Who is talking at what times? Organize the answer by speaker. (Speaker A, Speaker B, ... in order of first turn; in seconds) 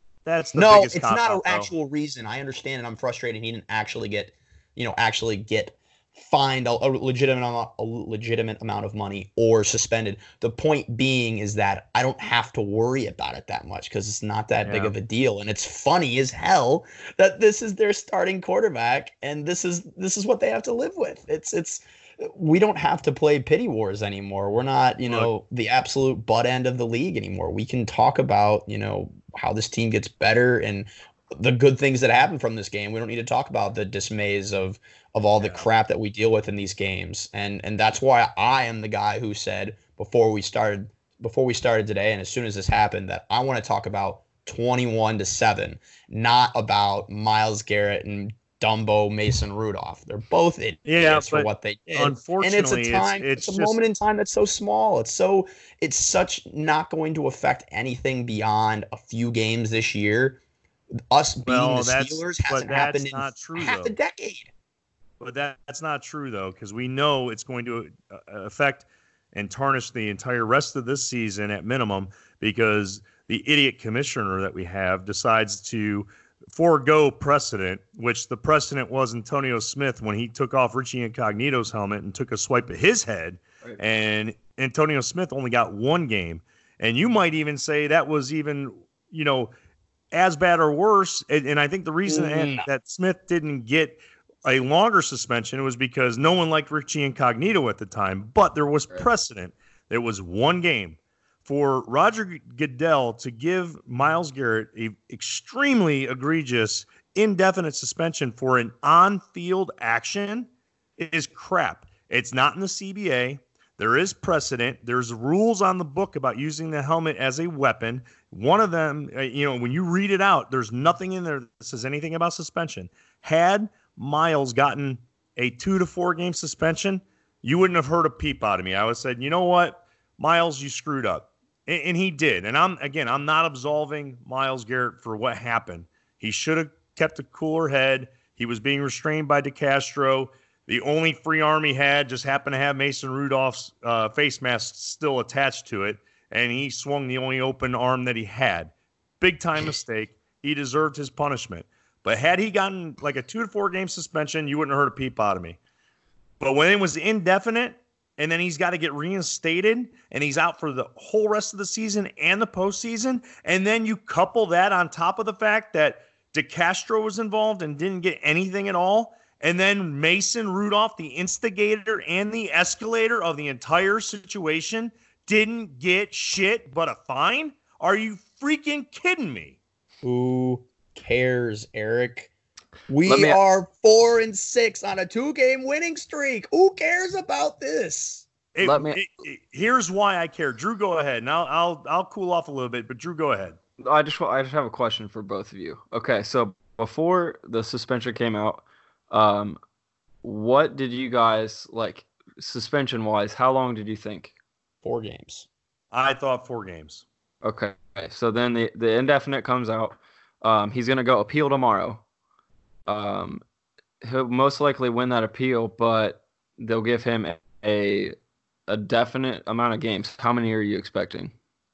Speaker A: 0.2-1.7, 14.6-14.9, 50.9-53.8, 61.5-63.9, 65.2-89.5, 90.1-155.6, 156.4-179.6, 188.5-193.6, 205.9-207.0
Speaker B: 0.5-60.4, 61.1-64.5, 92.0-92.7, 180.0-182.3, 182.9-188.3, 204.8-205.5
Speaker C: 183.1-183.4, 188.6-189.0, 193.8-199.6, 200.2-204.3, 207.4-212.0, 212.9-213.4, 214.0-218.1, 218.7-221.3